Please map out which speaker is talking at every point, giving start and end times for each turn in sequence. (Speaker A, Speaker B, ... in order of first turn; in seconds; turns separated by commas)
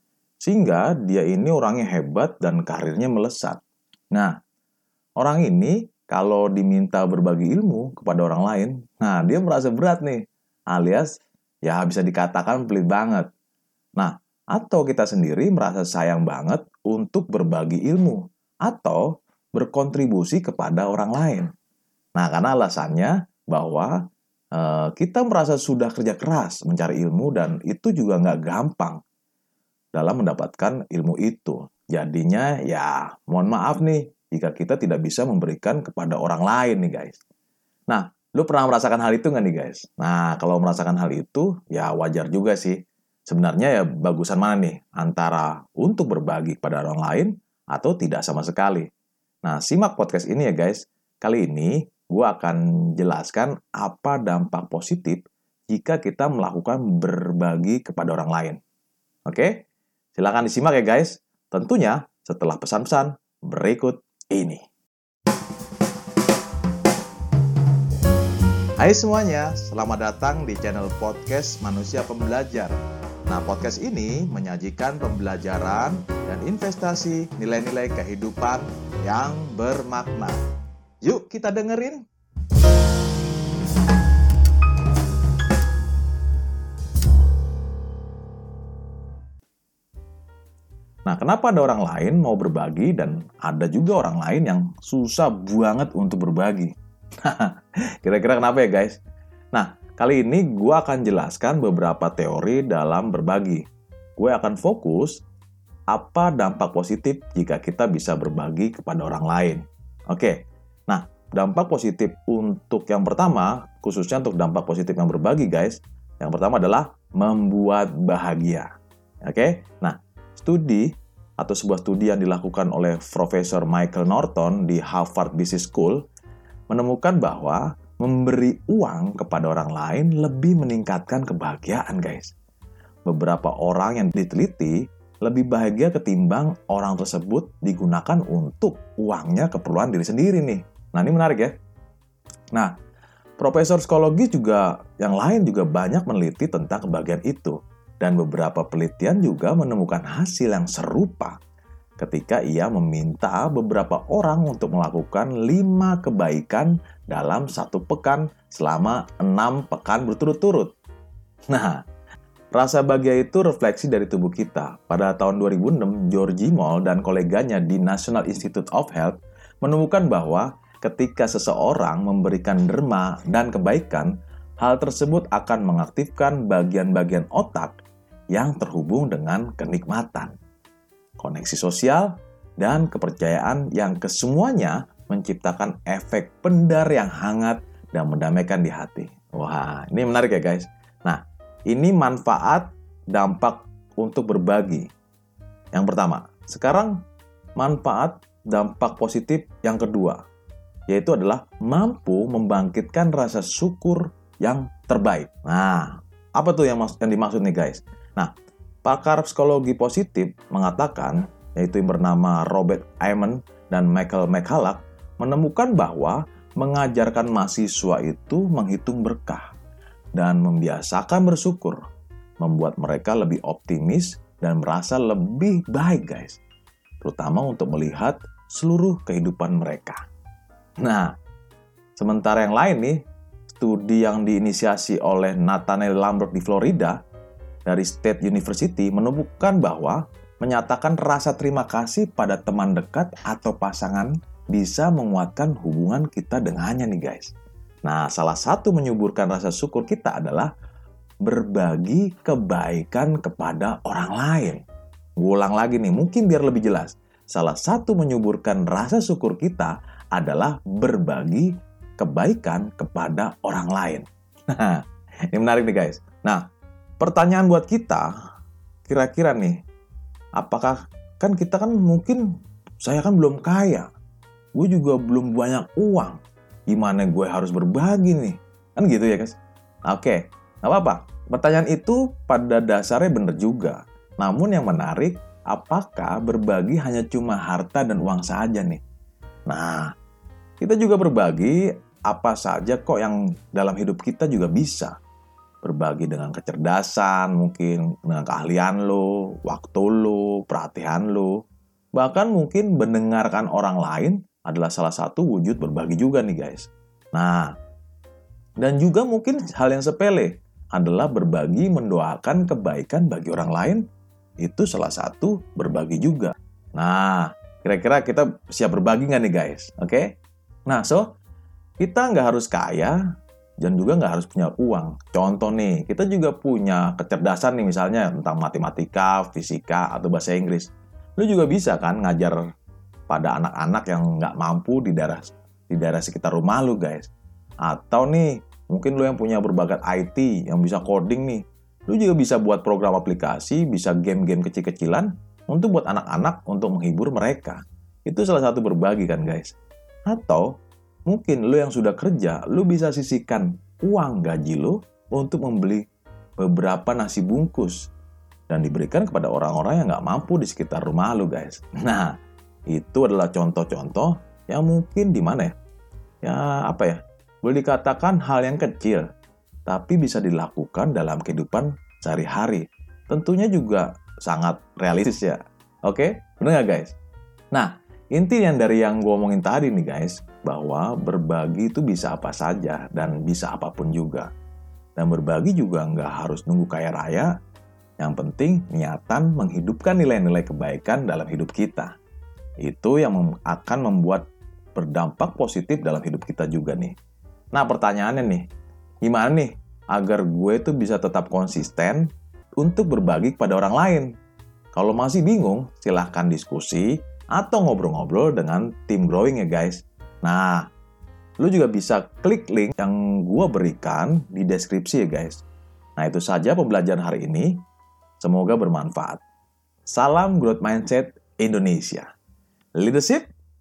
Speaker A: 0.4-3.6, Speaker A: 5.2-11.1, Speaker A: 11.6-13.3, Speaker A: 14.0-21.5, Speaker A: 22.1-23.9, Speaker A: 24.5-29.0, Speaker A: 29.9-37.2, Speaker A: 37.9-48.9, Speaker A: 49.4-58.6, Speaker A: 59.3-59.6, Speaker A: 60.1-64.6, Speaker A: 68.8-80.4, Speaker A: 81.0-82.0, Speaker A: 91.0-99.0, Speaker A: 99.5-103.6, Speaker A: 104.2-105.2, Speaker A: 105.9-118.7, Speaker A: 119.2-126.0, Speaker A: 126.7-132.3, Speaker A: 133.1-141.5, Speaker A: 143.4-151.3, Speaker A: 152.0-160.7, Speaker A: 161.5-161.8, Speaker A: 162.5-177.7, Speaker A: 178.3-180.3, Speaker A: 181.2-194.9, Speaker A: 195.7-197.0, Speaker A: 197.6-200.2, Speaker A: 200.9-208.3, Speaker A: 208.8-219.5, Speaker A: 220.2-221.8, Speaker A: 222.4-226.4, Speaker A: 227.0-230.0, Speaker A: 230.8-231.1, Speaker A: 232.0-233.0, Speaker A: 233.5-237.0, Speaker A: 237.7-247.3, Speaker A: 247.8-250.5, Speaker A: 251.2-254.6, Speaker A: 255.2-266.4, Speaker A: 267.0-268.1, Speaker A: 268.9-269.6, Speaker A: 270.4-272.3, Speaker A: 272.8-273.9, Speaker A: 274.5-276.2, Speaker A: 276.7-279.4, Speaker A: 279.9-288.8, Speaker A: 289.5-289.9, Speaker A: 290.6-294.9, Speaker A: 295.6-301.4, Speaker A: 301.9-307.5, Speaker A: 308.6-313.8, Speaker A: 314.4-320.1, Speaker A: 320.6-321.1, Speaker A: 321.8-323.0, Speaker A: 323.6-332.4, Speaker A: 333.1-337.1, Speaker A: 337.6-349.5, Speaker A: 350.1-355.8, Speaker A: 356.4-357.9, Speaker A: 358.5-362.1, Speaker A: 362.7-365.5, Speaker A: 366.2-369.1, Speaker A: 369.7-376.9, Speaker A: 377.5-384.3, Speaker A: 385.0-387.3, Speaker A: 388.0-391.9, Speaker A: 392.6-396.9, Speaker A: 397.5-398.4, Speaker A: 399.0-404.1, Speaker A: 404.7-410.6, Speaker A: 411.4-415.4, Speaker A: 416.0-417.6, Speaker A: 418.2-419.2, Speaker A: 419.9-422.1, Speaker A: 422.8-423.3